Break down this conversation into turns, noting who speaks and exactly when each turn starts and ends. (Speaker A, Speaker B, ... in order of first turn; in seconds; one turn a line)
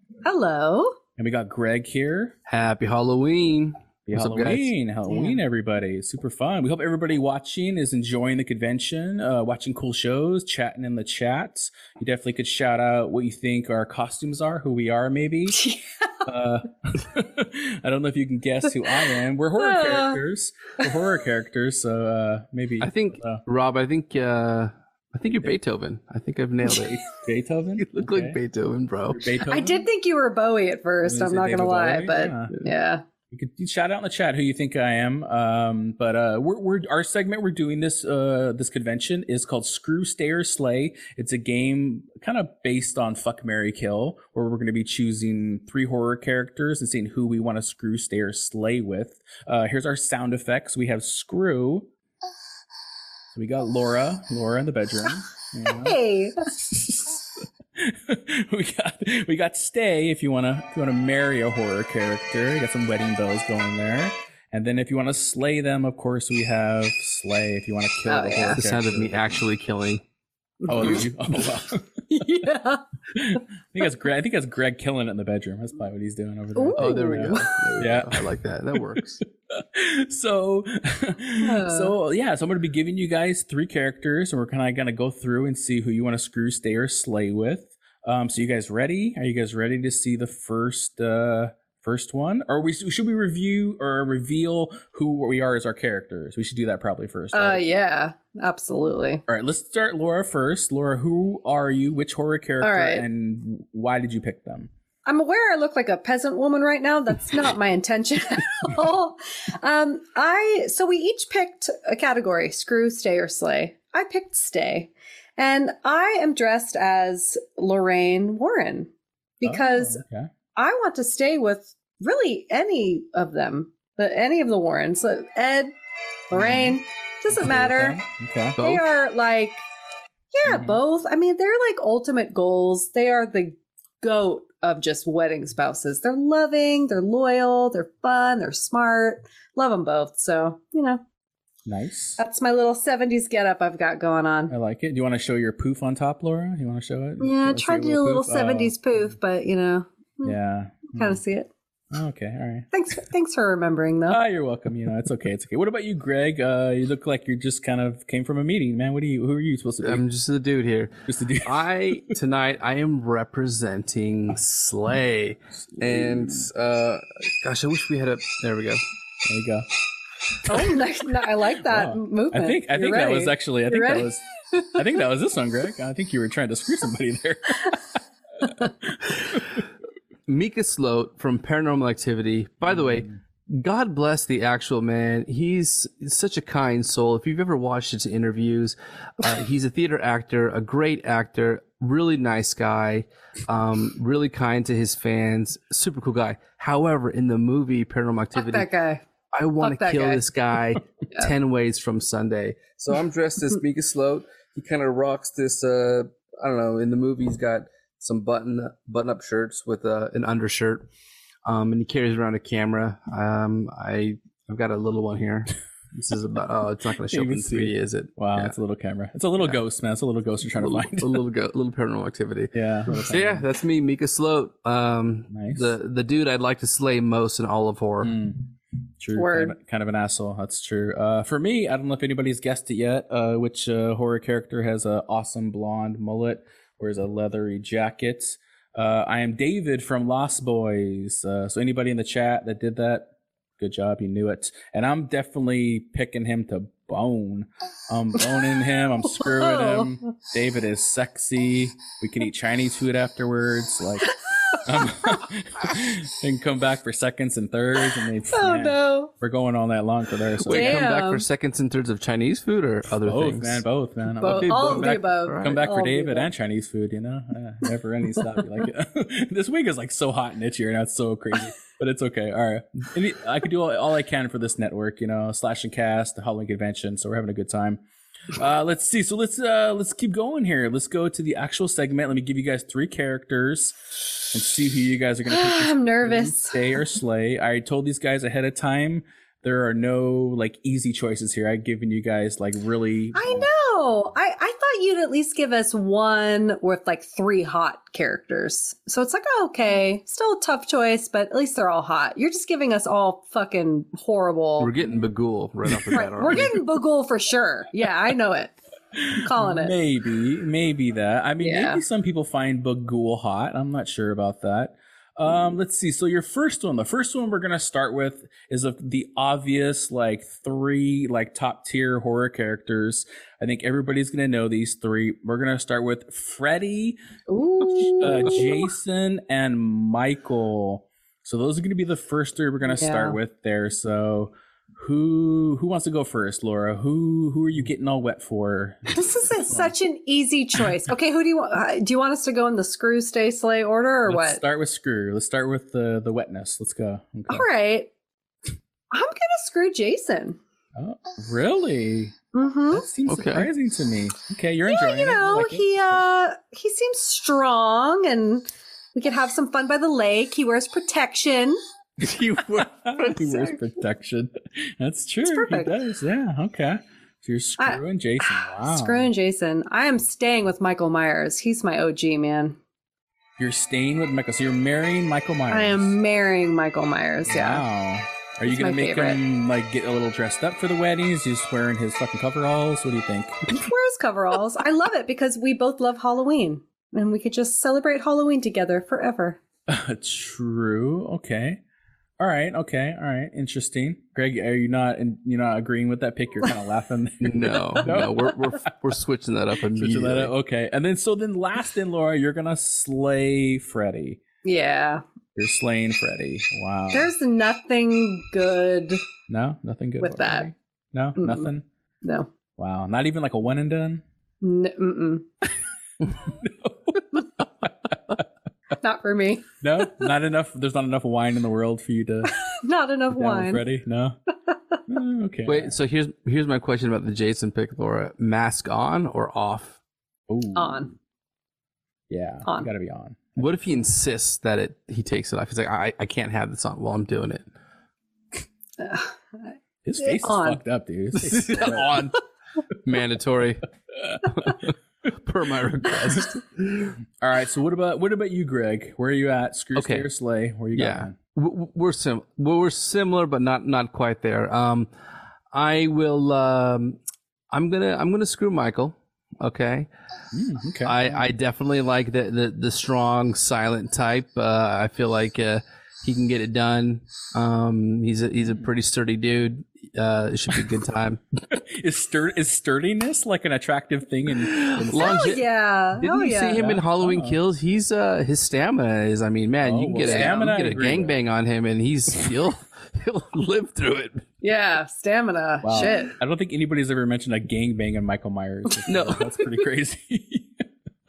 Speaker A: 0.2-1.0
Speaker B: 1.2-2.4
Speaker C: 2.5-4.7
Speaker B: 4.1-15.6
Speaker A: 15.5-16.1
Speaker B: 16.2-23.4
Speaker A: 18.8-20.2
Speaker C: 22.8-27.0
Speaker B: 26.8-28.4
Speaker C: 27.8-29.2
Speaker B: 29.1-29.9
Speaker A: 29.5-33.0
Speaker B: 31.0-32.5
Speaker B: 33.3-51.9
Speaker B: 53.3-69.3
Speaker A: 55.7-56.4
Speaker A: 68.1-68.6
Speaker C: 68.5-70.0
Speaker A: 70.6-71.0
Speaker B: 70.7-72.0
Speaker A: 72.1-72.8
Speaker B: 73.1-78.2
Speaker A: 76.6-77.5
Speaker C: 76.8-79.2
Speaker B: 79.5-97.6
Speaker A: 81.4-81.9
Speaker A: 97.3-99.2
Speaker B: 99.3-104.7
Speaker A: 102.6-103.0
Speaker A: 105.0-120.0
Speaker B: 119.4-120.3
Speaker A: 120.5-125.7
Speaker A: 126.3-128.0
Speaker B: 126.3-126.8
Speaker B: 127.3-128.6
Speaker C: 128.6-128.8
Speaker A: 128.6-129.6
Speaker A: 130.3-141.0
Speaker B: 130.4-130.8
Speaker B: 141.7-142.2
Speaker A: 142.2-144.5
Speaker B: 144.5-149.2
Speaker A: 147.2-150.3
Speaker B: 150.2-151.2
Speaker A: 150.9-151.5
Speaker B: 151.9-152.7
Speaker A: 152.7-154.2
Speaker B: 154.1-160.0
Speaker C: 159.8-168.8
Speaker B: 161.1-162.1
Speaker B: 165.6-166.5
Speaker B: 169.2-169.7
Speaker A: 170.4-175.0
Speaker B: 171.4-179.5
Speaker C: 180.3-198.7
Speaker B: 182.7-183.2
Speaker A: 198.3-199.0
Speaker C: 199.3-210.9
Speaker A: 199.6-200.2
Speaker C: 211.4-218.6
Speaker B: 217.1-221.2
Speaker C: 220.6-228.1
Speaker B: 222.5-223.4
Speaker B: 225.3-225.7
Speaker B: 228.0-228.5
Speaker B: 229.0-254.1
Speaker A: 229.2-229.5
Speaker A: 249.2-249.9
Speaker A: 254.5-255.2
Speaker B: 254.6-260.9
Speaker A: 258.3-259.1
Speaker C: 260.4-263.6
Speaker A: 260.4-261.2
Speaker B: 263.0-277.8
Speaker A: 264.2-266.3
Speaker C: 264.2-265.6
Speaker B: 278.4-283.8
Speaker B: 284.3-293.5
Speaker A: 285.3-286.8
Speaker A: 293.1-304.7
Speaker C: 304.6-306.6
Speaker B: 305.7-306.5
Speaker A: 305.9-308.5
Speaker B: 308.9-327.0
Speaker A: 309.1-309.7
Speaker A: 311.4-311.8
Speaker A: 327.3-328.7
Speaker B: 327.6-339.7
Speaker A: 332.7-333.2
Speaker A: 338.9-344.4
Speaker B: 344.1-347.4
Speaker A: 347.3-347.9
Speaker A: 348.9-350.4
Speaker B: 350.8-352.1
Speaker A: 352.3-352.9
Speaker B: 352.7-356.0
Speaker C: 353.1-353.5
Speaker A: 354.6-361.6
Speaker C: 362.0-363.0
Speaker B: 362.4-369.1
Speaker A: 363.1-363.7
Speaker A: 365.3-365.7
Speaker A: 367.6-372.6
Speaker B: 373.4-375.9
Speaker A: 375.5-377.6
Speaker B: 377.2-383.7
Speaker A: 378.4-379.2
Speaker A: 383.5-389.4
Speaker B: 389.7-391.6
Speaker B: 392.2-398.7
Speaker C: 397.2-400.3
Speaker B: 399.7-404.2
Speaker A: 404.4-405.0
Speaker B: 405.3-407.1
Speaker A: 406.9-409.1
Speaker B: 409.3-411.6
Speaker A: 410.0-410.5
Speaker A: 411.2-411.5
Speaker A: 412.0-412.3
Speaker B: 412.6-414.0
Speaker A: 414.4-415.2
Speaker B: 416.0-418.2
Speaker A: 418.8-419.5
Speaker B: 419.6-422.3
Speaker A: 422.3-423.6
Speaker B: 423.1-424.2
Speaker A: 424.5-424.8
Speaker B: 424.9-425.8
Speaker C: 425.4-429.8
Speaker B: 430.3-430.9
Speaker A: 430.6-430.9
Speaker B: 432.1-433.5
Speaker C: 433.4-437.4
Speaker A: 438.8-440.6
Speaker B: 439.8-442.1
Speaker C: 441.1-442.2
Speaker C: 442.8-443.6
Speaker B: 444.0-444.6
Speaker C: 444.2-446.9
Speaker B: 447.2-451.1
Speaker C: 449.7-450.1
Speaker C: 450.8-454.9
Speaker C: 455.5-457.0
Speaker C: 457.5-459.9
Speaker B: 460.3-461.3
Speaker C: 460.9-471.2
Speaker B: 471.5-475.2
Speaker C: 474.4-475.4
Speaker A: 474.9-476.7
Speaker C: 476.0-484.3
Speaker B: 476.5-477.4
Speaker B: 479.6-481.2
Speaker A: 480.0-480.5
Speaker A: 484.4-486.1
Speaker B: 485.6-490.6
Speaker C: 488.9-489.4